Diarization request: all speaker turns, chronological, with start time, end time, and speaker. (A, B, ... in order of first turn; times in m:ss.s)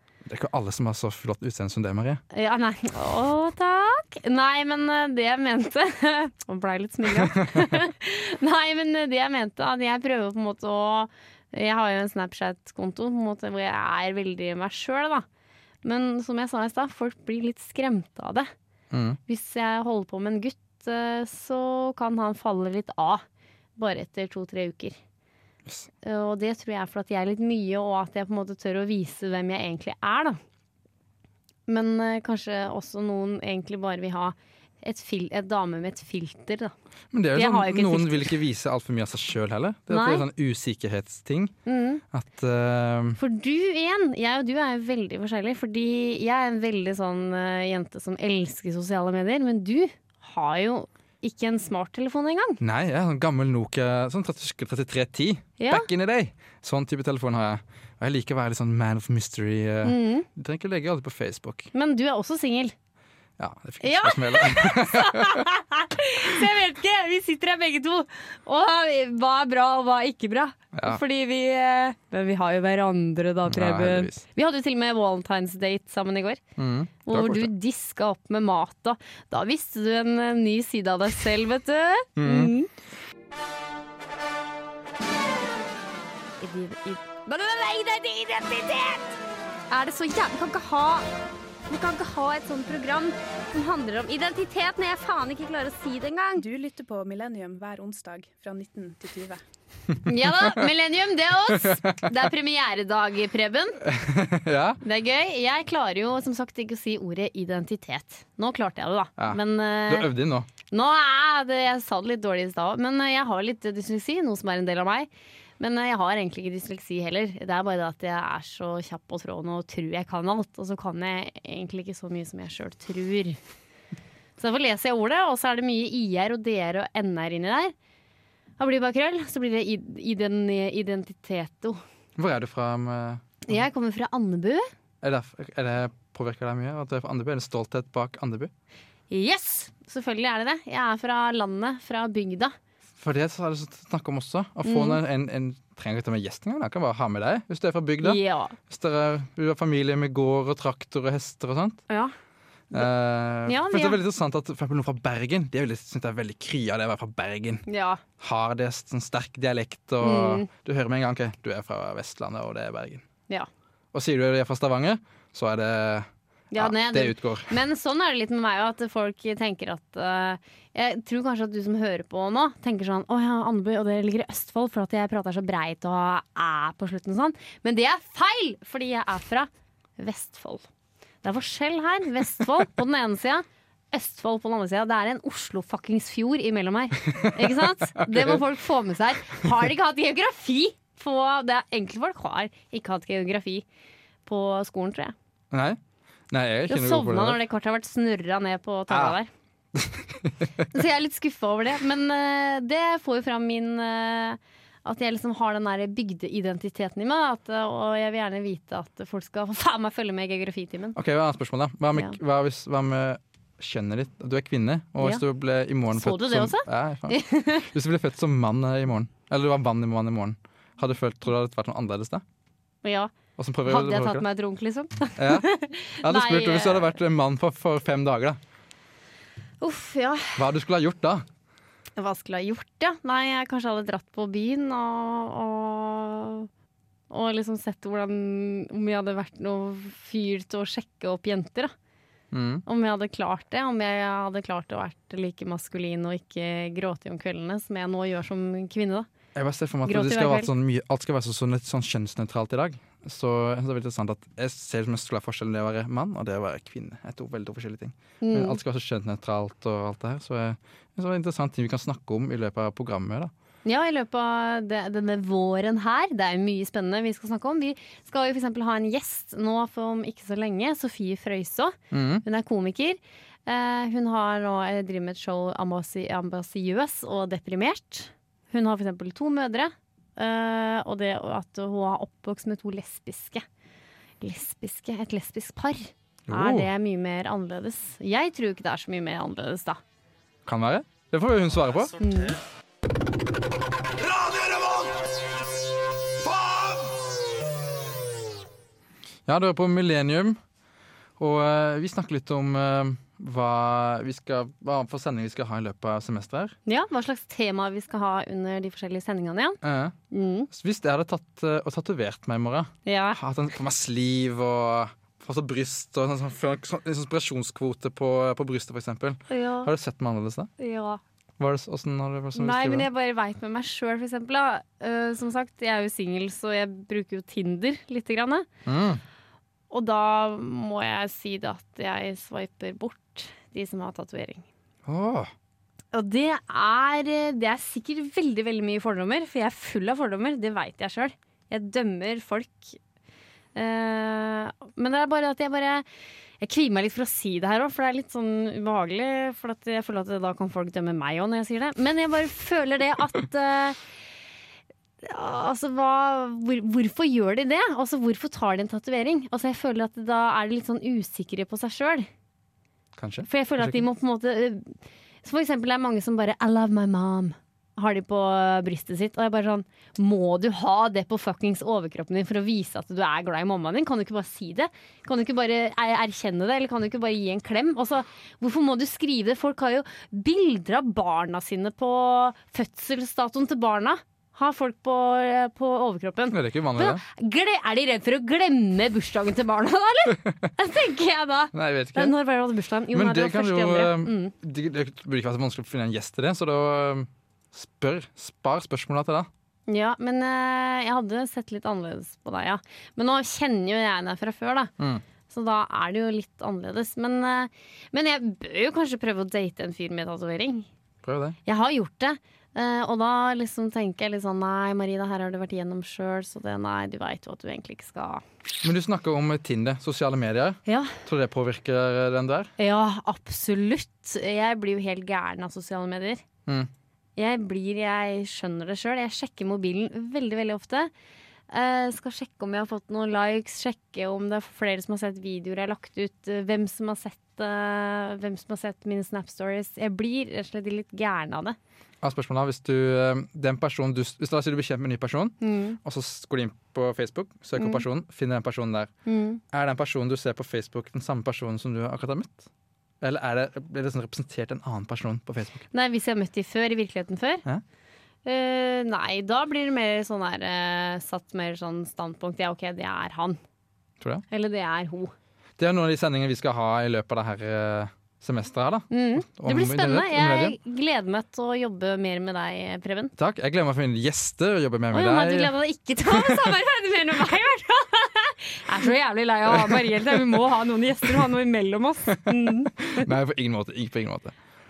0:00.2-0:02.2 A
0:02.3-0:15.3 B
0:07.1-0:07.8 A
0:15.8-0:18.5 B
0:18.9-0:19.2 A
0:19.3-0:23.2 B
0:23.8-0:25.0 B
0:26.0-0:30.4 B
0:31.7-0:36.7 B
0:37.1-0:41.6 A
0:37.4-0:38.4 B
0:39.9-0:40.3 B
0:41.7-0:42.0 B
0:42.1-0:43.2 A
0:43.2-0:52.6 B
0:52.6-1:01.7 A
0:55.6-0:55.9 B
0:59.8-1:00.3 B
1:01.7-1:02.7 B
1:03.4-1:05.5 A
1:03.8-1:16.4 B
1:10.7-1:11.0 A
1:13.5-1:14.2 A
1:16.6-1:17.5 A
1:17.1-1:22.7 B
1:22.2-1:22.5 A
1:26.4-1:29.2 B
1:29.7-1:31.1 B
1:31.7-1:36.4 B
1:36.4-1:39.4 C
1:40.0-1:43.8 B
1:40.1-1:40.7 A
1:41.5-1:42.2 A
1:43.8-1:44.8 A
1:44.8-1:50.1 B
1:49.2-1:50.5 A
1:50.7-2:03.4 B
2:04.4-2:07.7 B
2:08.6-2:11.8 B
2:12.2-2:13.6 A
2:13.4-2:14.7 B
2:15.0-2:18.5 A
2:19.1-2:22.5 B
2:23.0-2:31.8 A
2:24.6-2:25.0 B
2:28.0-2:28.6 B
2:32.7-2:37.6 A
2:33.5-2:34.0 B
2:37.7-2:38.0 B
2:38.2-2:43.0 A
2:40.0-2:40.5 B
2:43.9-2:47.5 A
2:46.5-3:00.7 B
3:01.2-3:13.6 B
3:07.1-3:08.4 A
3:14.3-3:15.2 B
3:15.5-3:15.8 A
3:16.3-3:17.4 A
3:16.7-3:19.3 B
3:18.9-3:19.2 A
3:19.8-3:20.7 A
3:20.7-3:31.0 B
3:31.0-3:42.2 A
3:35.9-3:37.7 B
3:42.8-3:43.1 B
3:43.4-3:44.2 A
3:43.6-3:47.0 B
3:45.2-3:45.5 A
3:46.0-3:48.4 A
3:49.6-3:50.4 B
3:50.4-3:51.2 A
3:52.0-3:56.5 B
3:57.1-4:01.7 B
4:02.3-4:02.6 A
4:02.7-4:09.1 B
4:09.4-4:23.3 A
4:09.9-4:10.5 B
4:18.2-4:18.6 B
4:23.6-4:43.5 B
4:31.9-4:32.2 A
4:44.2-4:49.8 B
4:46.3-4:46.7 A
4:50.4-4:52.0 A
4:52.0-4:52.4 B
4:54.0-4:54.9 A
4:56.2-4:56.8 A
4:59.3-5:00.4 A
5:01.2-5:06.6 A
5:06.7-5:09.6 B
5:09.6-5:10.0 A
5:10.1-5:10.5 B
5:10.5-5:20.5 A
5:12.9-5:13.2 B
5:19.3-5:19.7 B
5:20.6-5:21.0 B
5:21.4-5:22.9 A
5:22.4-5:28.5 B
5:28.6-5:29.0 A
5:29.7-5:34.5 B
5:34.9-5:35.3 A
5:35.9-5:42.8 B
5:43.6-5:45.8 B
5:46.4-5:53.8 B
5:55.0-6:02.1 B
6:03.0-6:03.9 A
6:03.2-6:34.3 B
6:26.3-6:27.0 A
6:30.1-6:30.5 A
6:31.5-6:32.2 A
6:32.9-6:39.3 A
6:39.7-6:44.7 B
6:45.3-6:50.7 B
6:51.0-6:51.4 A
6:51.5-6:58.2 B
6:58.6-7:02.5 A
7:00.7-7:01.0 B
7:02.6-7:06.2 B
7:07.2-7:10.9 B
7:11.5-7:21.6 B
7:22.0-7:28.9 A
7:25.4-7:25.8 B
7:27.6-7:27.8 B
7:29.1-7:29.4 B
7:29.5-7:32.5 A
7:33.0-7:35.7 A
7:35.7-7:37.4 B
7:38.2-7:43.4 B
7:44.0-7:44.2 A
7:44.3-7:45.1 B
7:45.6-7:50.6 A
7:48.9-7:53.1 B
7:53.2-7:56.5 A
7:54.9-8:03.1 B
7:59.5-8:00.5 A
8:02.1-8:04.4 A